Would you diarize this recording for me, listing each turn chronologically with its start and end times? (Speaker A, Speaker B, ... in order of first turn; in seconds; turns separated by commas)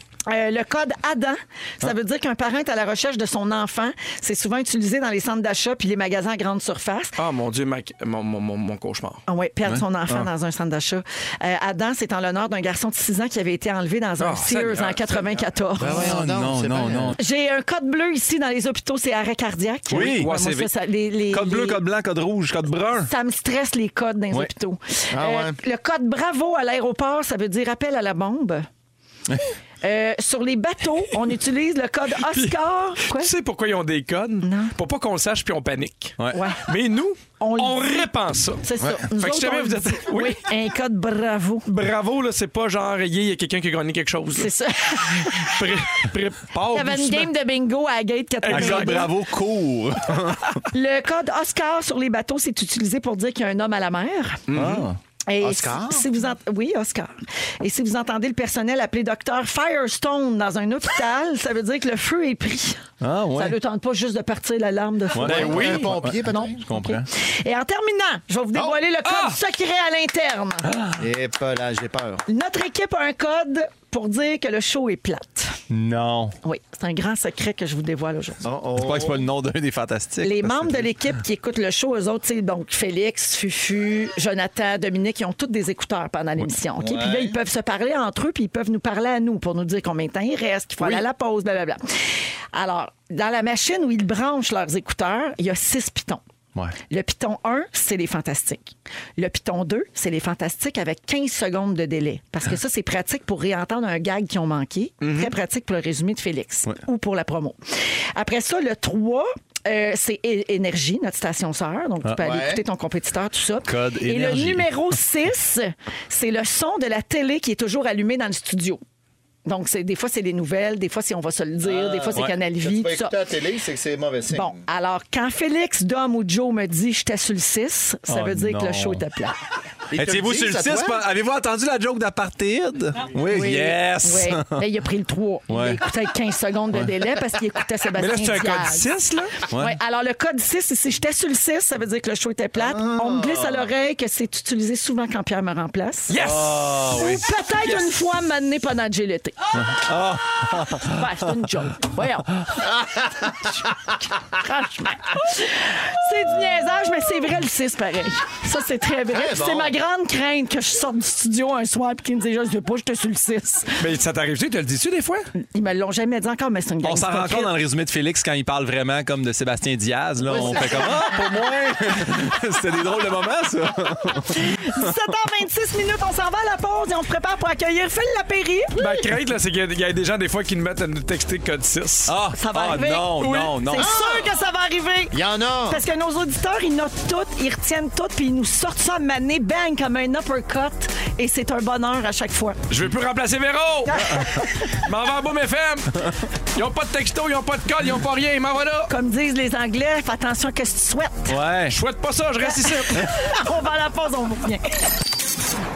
Speaker A: 0.3-7.2, Speaker B: 7.2-9.2, Speaker A: 9.3-16.2, Speaker C: 9.7-10.3, Speaker B: 14.2-15.4, Speaker D: 15.8-17.2, Speaker C: 15.8-17.2, Speaker A: 17.2-21.8, Speaker C: 19.9-20.3, Speaker B: 19.9-20.7, Speaker C: 21.3-23.1, Speaker A: 23.1-28.7, Speaker D: 25.1-25.6, Speaker A: 29.8-33.3, Speaker B: 32.2-38.6, Speaker A: 34.4-34.7, Speaker A: 36.3-36.6, Speaker A: 37.4-38.1, Speaker A: 38.6-41.7, Speaker B: 39.2-40.5, Speaker B: 41.7-47.3, Speaker A: 44.4-46.1, Speaker A: 46.7-49.1, Speaker B: 48.4-49.1, Speaker C: 48.5-50.7, Speaker A: 50.7-54.4, Speaker B: 54.5-54.9, Speaker C: 54.5-55.0, Speaker A: 55.3-62.8, Speaker D: 55.4-56.1, Speaker C: 63.0-63.6, Speaker A: 63.3-70.7, Speaker C: 65.1-67.1, Speaker D: 65.2-66.6, Speaker B: 65.2-66.0, Speaker B: 69.0-69.4, Speaker C: 70.6-71.0, Speaker D: 71.0-72.2, Speaker A: 72.3-75.5, Speaker C: 75.7-76.4, Speaker A: 76.4-78.4, Speaker D: 78.4-79.2, Speaker C: 78.8-81.0, Speaker A: 80.2-91.8, Speaker D: 86.8-87.4, Speaker A: 92.5-96.2, Speaker A: 96.9-107.6, Speaker B: 105.0-105.3, Speaker A: 108.1-118.8, Speaker D: 112.2-112.6, Speaker C: 113.7-114.7, Speaker A: 119.5-123.2, Speaker D: 121.6-124.6, Speaker A: 124.3-129.4, Speaker C: 128.1-129.0, Speaker D: 129.9-131.1, Speaker C: 129.9-134.7, Speaker A: 133.3-138.9, Speaker C: 135.5-135.8, Speaker B: 137.9-139.4, Speaker C: 139.5-139.8, Speaker A: 139.5-146.2, Speaker D: 142.6-143.6, Speaker B: 146.1-147.1, Speaker C: 146.2-147.2, Speaker A: 146.9-149.6, Speaker B: 147.6-147.9, Speaker C: 149.6-151.4, Speaker A: 150.5-152.4, Speaker D: 152.8-153.3, Speaker A: 153.9-163.8, Speaker D: 159.1-159.7, Speaker C: 159.3-159.7, Speaker B: 163.8-165.3, Speaker A: 165.3-167.6, Speaker C: 166.8-174.6, Speaker D: 170.2-171.3, Speaker A: 170.4-170.8, Speaker A: 174.3-179.0, Speaker B: 178.8-182.2, Speaker C: 182.1-183.9, Speaker A: 182.3-192.6, Speaker B: 183.2-183.6, Speaker D: 183.8-184.3, Speaker D: 185.1-185.8, Speaker B: 192.7-198.9, Speaker A: 193.8-194.8, Speaker A: 198.9-201.4, Speaker C: 201.3-201.8, Speaker B: 201.7-203.3, Speaker A: 202.4-204.7